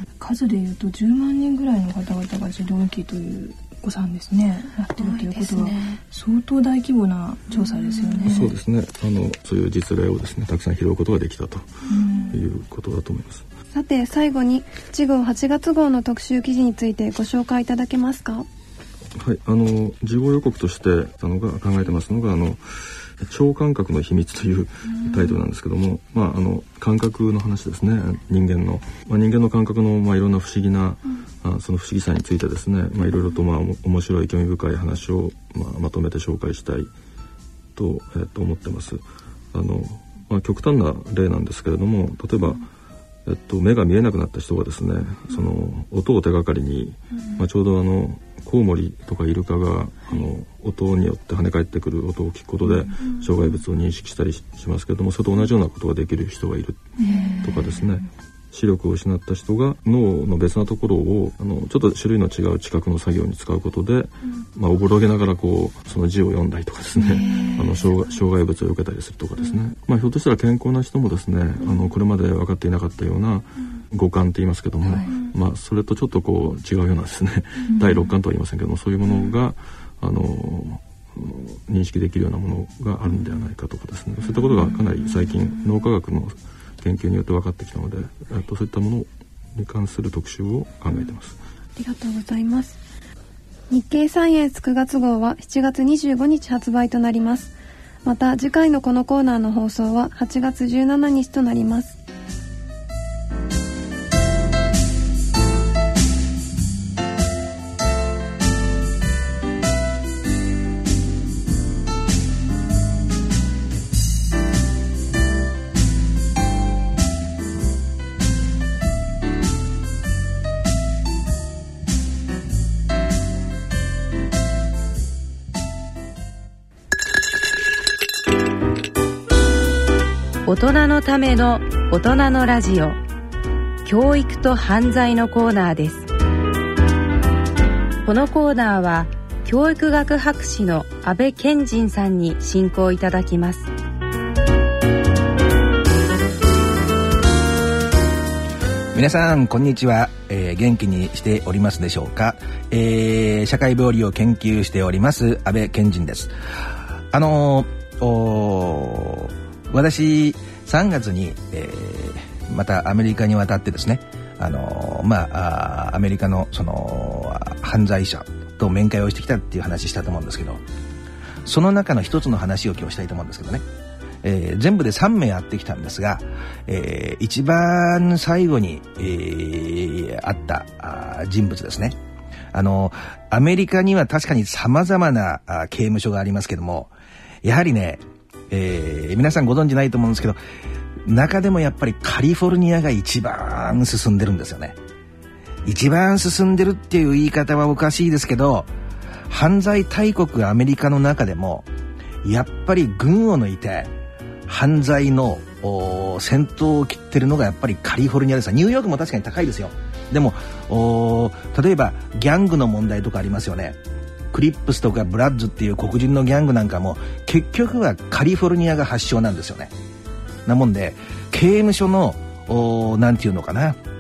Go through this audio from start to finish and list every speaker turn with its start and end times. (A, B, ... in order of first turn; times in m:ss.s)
0:00.2-0:08.5 A
0:05.0-0:06.0 B
0:08.2-0:11.7 C
0:11.9-0:12.4 A
0:12.3-0:13.4 C
0:13.7-0:18.5 B
0:19.2-0:36.9 C
0:37.8-0:42.7 C
0:43.2-1:31.4 C
0:57.0-0:57.4 A
1:07.1-1:07.7 A
1:17.7-1:18.0 A
1:31.8-1:32.8 B
1:33.7-1:37.5 B
1:38.0-1:42.0 B
2:10.5-2:13.0 D
2:13.8-2:16.1 D
2:18.0-2:23.7 D
2:28.9-2:36.3 E
2:37.1-2:50.6 E
2:51.4-2:53.6 E
2:54.2-3:02.0 E
3:02.5-3:06.9 E
3:07.4-3:10.4 E
3:11.0-3:14.8 E
3:15.6-3:18.7 E
3:19.3-3:21.7 E
3:22.2-3:23.9 E
3:24.5-3:33.8 E
3:34.3-3:39.7 E
3:40.5-3:43.8 E